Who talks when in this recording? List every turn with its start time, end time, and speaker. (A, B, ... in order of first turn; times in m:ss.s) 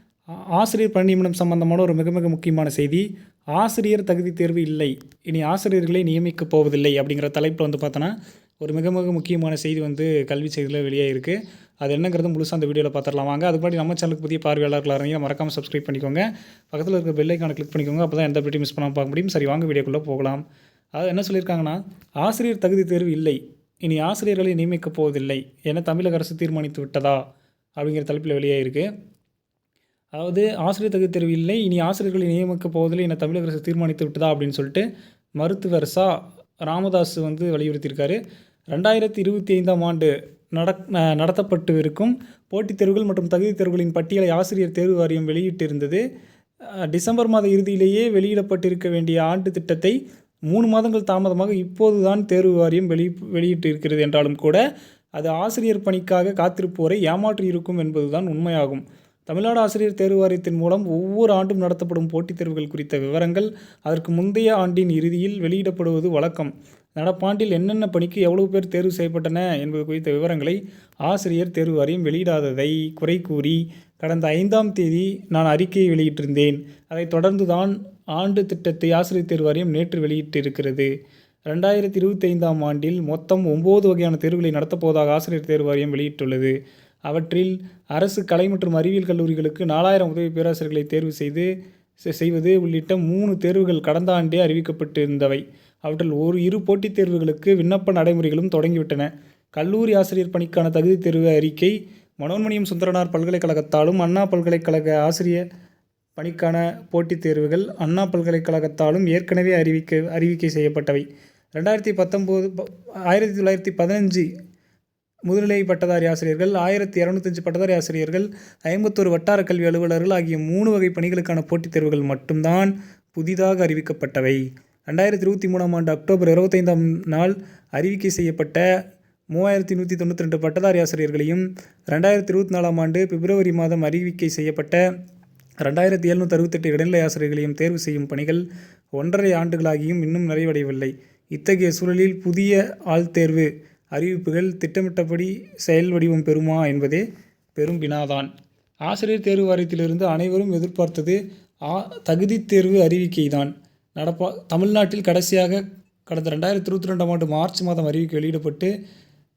0:00.5-0:20.4 A
0:20.9-0:27.2 A
0:27.8-0:28.9 A
0:30.1-0:34.8 A
0:35.4-0:38.2 A
0:38.7-0:46.0 A
0:46.9-0:50.0 A
0:50.5-0:54.6 A
0:55.2-1:20.9 A
1:21.5-1:26.6 A
1:27.1-1:31.5 A
1:32.0-1:45.4 A
1:46.2-1:51.0 A
1:51.6-1:54.3 A
1:55.3-2:08.6 A
2:09.3-2:14.8 A
2:15.6-2:18.4 A
2:19.0-2:27.0 A
2:27.6-2:28.3 A
2:28.8-2:38.7 A